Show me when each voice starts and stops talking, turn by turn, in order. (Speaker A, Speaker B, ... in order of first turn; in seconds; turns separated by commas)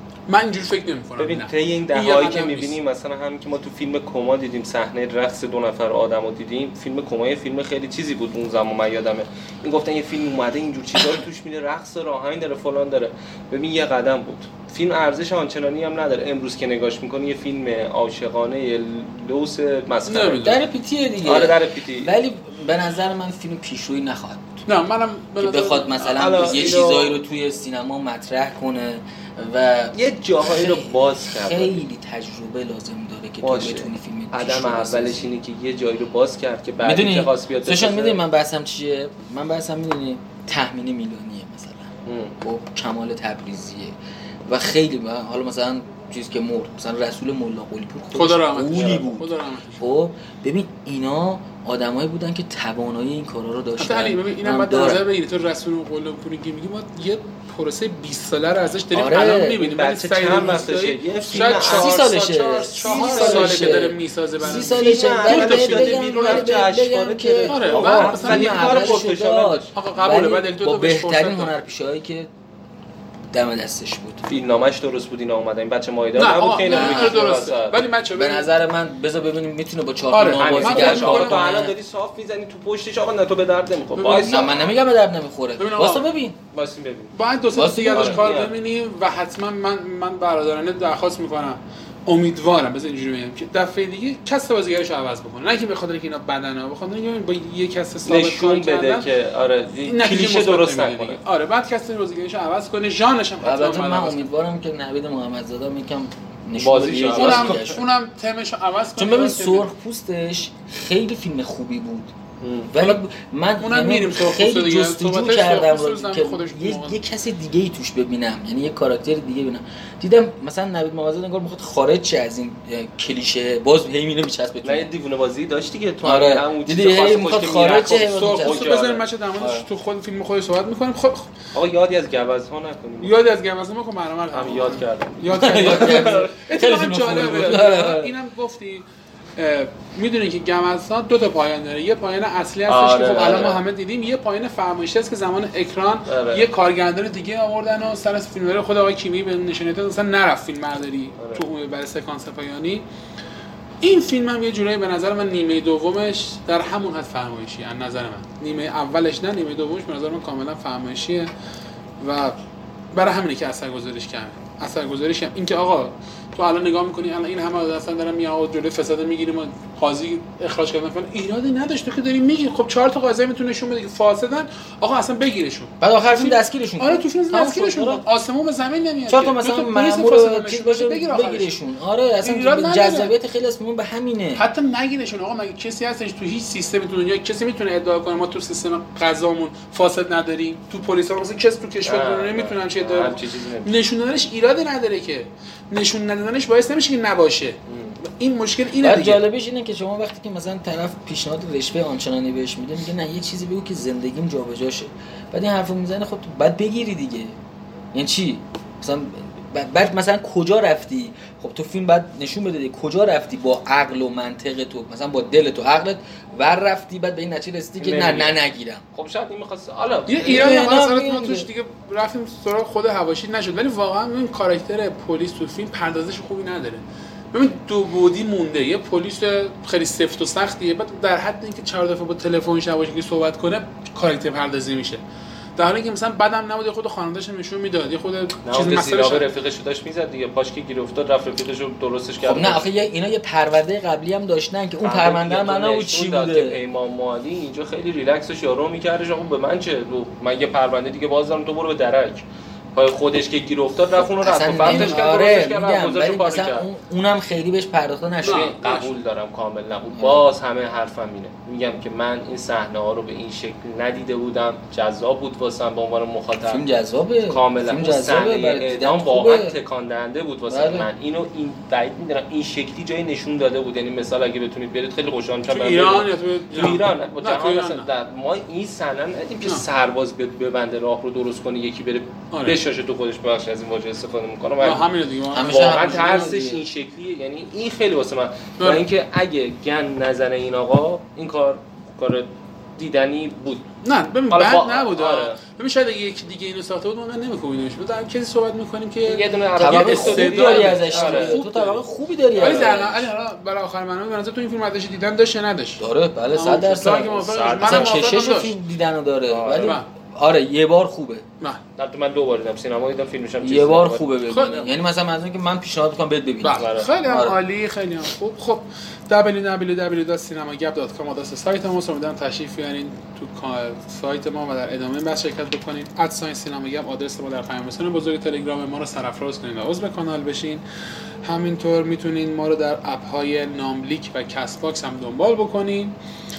Speaker A: 0.3-2.8, Speaker B: 1.2-20.6, Speaker A: 20.1-20.6, Speaker C: 20.4-24.6, Speaker B: 21.2-22.1, Speaker A: 24.7-26.9, Speaker C: 25.4-35.3, Speaker B: 26.1-27.2, Speaker B: 29.9-31.8, Speaker B: 33.4-38.2, Speaker C: 36.8-41.9, Speaker B: 42.1-42.4, Speaker C: 42.4-55.0, Speaker A: 48.1-49.8, Speaker B: 48.7-49.0, Speaker A: 53.8-66.5, Speaker C: 58.9-59.7, Speaker B: 59.6-69.7, Speaker C: 61.4-72.3, Speaker A: 67.5-69.0, Speaker A: 69.7-71.5, Speaker C: 73.3-74.3, Speaker B: 74.3-77.8, Speaker A: 76.2-78.5, Speaker C: 76.7-77.2, Speaker C: 78.1-81.7, Speaker A: 80.1-81.6, Speaker B: 80.4-84.6, Speaker A: 84.0-84.6, Speaker C: 84.2-86.4, Speaker A: 85.6-86.0, Speaker B: 86.5-87.2, Speaker A: 87.1-99.1, Speaker C: 87.5-88.3, Speaker B: 87.9-88.5, Speaker B: 98.0-101.2, Speaker A: 99.8-104.2, Speaker C: 103.4-107.9, Speaker B: 106.6-107.7, Speaker A: 107.0-109.7, Speaker C: 109.0-112.1, Speaker B: 112.4-112.7, Speaker C: 112.7-124.9, Speaker A: 113.6-117.0, Speaker B: 124.6-129.0, Speaker C: 126.0-128.8, Speaker A: 127.7-131.3, Speaker C: 129.4-129.7, Speaker B: 131.5-133.1, Speaker A: 133.0-138.9, Speaker B: 134.3-136.3, Speaker C: 135.3-138.2, Speaker A: 139.4-152.8, Speaker B: 142.7-143.6, Speaker B: 146.1-146.5, Speaker B: 151.2-151.4, Speaker A: 153.8-161.3, Speaker A: 162.0-162.4, Speaker A: 162.9-181.5, Speaker C: 175.8-178.0, Speaker C: 179.1-184.4, Speaker A: 182.2-183.1, Speaker A: 184.4-199.2, Speaker B: 191.8-193.7, Speaker B: 197.7-198.0, Speaker C: 198.8-207.4, Speaker C: 207.9-218.8, Speaker B: 217.8-218.4, Speaker B: 218.9-220.6, Speaker A: 220.1-226.8, Speaker C: 220.2-221.5, Speaker A: 227.3-235.0, Speaker A: 235.6-239.3, Speaker B: 238.4-242.7, Speaker C: 242.2-246.6, Speaker B: 244.8-256.7, Speaker C: 254.0-258.6, Speaker A: 254.7-255.0, Speaker B: 258.2-266.6, Speaker A: 258.2-258.9, Speaker C: 259.9-260.2, Speaker C: 266.4-269.6, Speaker B: 267.3-284.9, Speaker C: 270.5-270.9, Speaker A: 275.5-277.9, Speaker A: 282.3-282.6, Speaker A: 284.6-286.3, Speaker C: 285.3-286.7, Speaker B: 285.4-293.7, Speaker A: 293.8-301.8, Speaker B: 294.3-295.4, Speaker B: 299.1-301.4, Speaker C: 299.6-303.1, Speaker B: 302.3-302.8, Speaker A: 302.4-305.8, Speaker C: 305.8-311.2, Speaker A: 306.3-308.5, Speaker B: 306.9-308.1, Speaker B: 309.3-309.8, Speaker A: 309.6-309.9, Speaker B: 311.8-314.1, Speaker C: 313.4-317.4, Speaker A: 314.3-314.7, Speaker A: 316.4-330.6, Speaker B: 316.6-316.9, Speaker A: 331.2-336.0